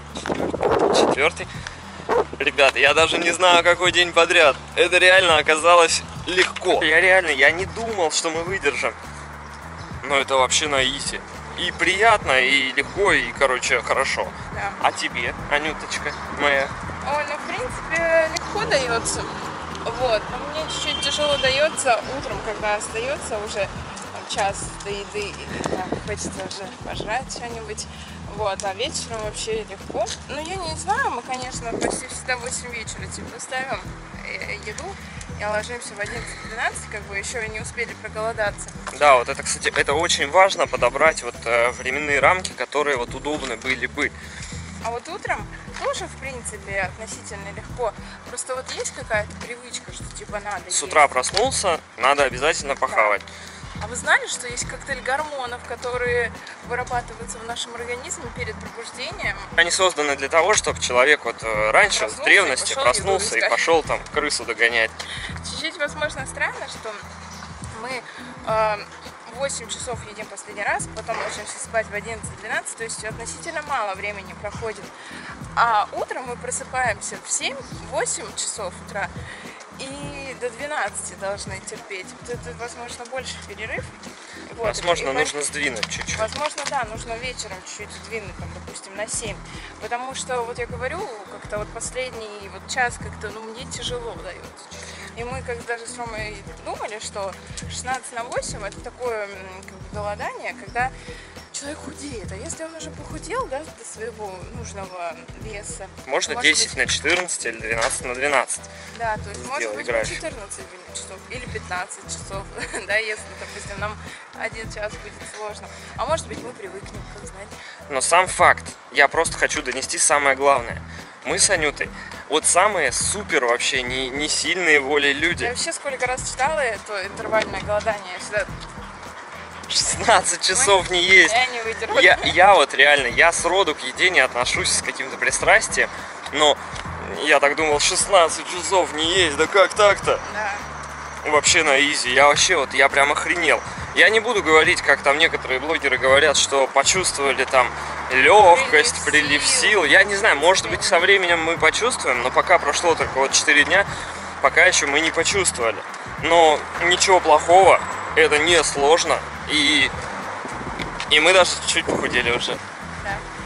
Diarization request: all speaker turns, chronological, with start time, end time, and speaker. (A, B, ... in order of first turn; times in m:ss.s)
0:00.2-0:00.6 A
0:00.7-0:01.5 B
0:02.4-0:09.0 B
0:10.0-0:16.7 B
0:14.5-0:14.8 A
0:17.0-0:19.3 A
0:19.8-0:38.7 A
0:38.9-0:44.1 B
0:44.8-0:51.2 A
0:50.7-0:53.3 B
0:52.7-0:53.2 A
0:53.8-0:59.5 A
0:59.6-1:04.9 B
1:01.9-1:03.6 A
1:05.4-1:07.0 A
1:07.7-1:14.9 A
1:15.5-1:19.1 A
1:19.8-1:25.4 A
1:24.5-1:26.3 B
1:26.1-1:40.9 A
1:41.5-1:46.8 A
1:46.0-1:48.7 B
1:48.9-1:57.5 A
1:49.3-1:50.2 B
1:57.9-2:05.5 B
2:05.4-2:08.5 A
2:09.7-2:11.4 B
2:10.5-2:12.3 A
2:11.9-2:20.2 B
2:20.2-2:20.7 A
2:21.2-2:33.9 B
2:28.3-2:31.1 A
2:34.4-2:39.9 B
2:41.1-2:42.6 B